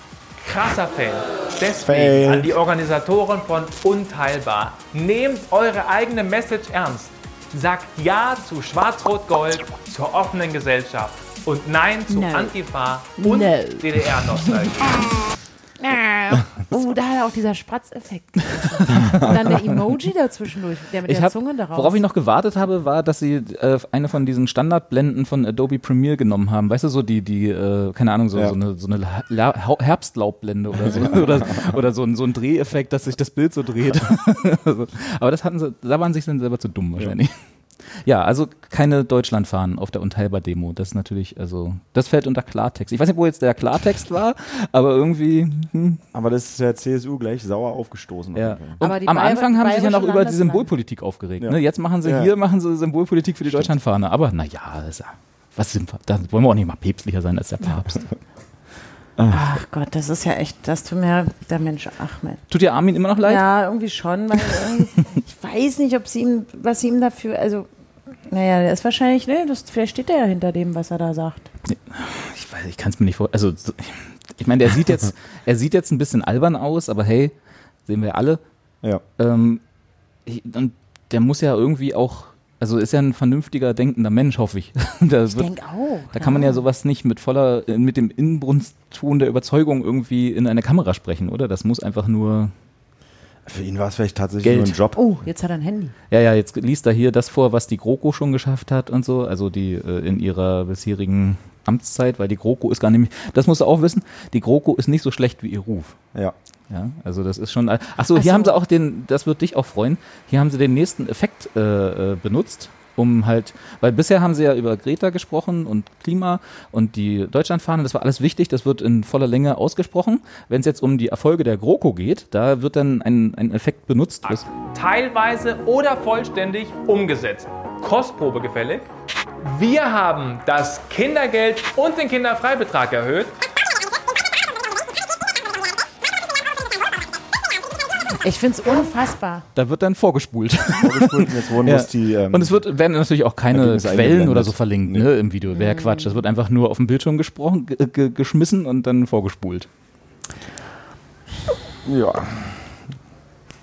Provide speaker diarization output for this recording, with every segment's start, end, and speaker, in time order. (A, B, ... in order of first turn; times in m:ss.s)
0:00.4-0:15.0 A
0:01.8-0:02.6 B
0:12.1-0:12.6 C
0:13.2-0:13.9 C
0:15.8-0:22.0 C
0:18.9-0:19.6 D
0:21.1-0:37.3 D
0:30.9-0:31.5 B
0:37.9-0:46.0 D
0:46.1-0:48.8 B
0:48.4-0:58.1 D
0:48.8-0:50.7 C
0:51.4-0:52.3 B
0:53.5-0:53.7 B
0:59.2-0:59.4 B
0:59.3-1:02.4 C
1:02.5-1:03.4 D
1:03.2-1:07.7 C
1:04.6-1:04.8 D
1:08.2-1:11.5 C
1:11.6-1:17.3 D
1:17.9-1:18.4 D
1:19.2-1:19.6 D
1:20.2-1:25.5 D
1:25.3-1:26.6 C
1:26.1-1:32.5 D
1:33.4-1:35.0 B
1:34.4-1:34.8 D
1:34.9-1:35.9 C
1:36.1-1:46.0 D
1:46.7-2:04.4 D
1:48.1-1:48.6 C
2:04.2-2:08.9 A
2:09.4-2:13.4 A
2:18.2-2:19.4 C
2:19.6-2:29.7 D
2:20.7-2:22.6 B
2:23.5-2:25.1 B
2:25.5-2:26.1 C
2:31.8-2:32.6 B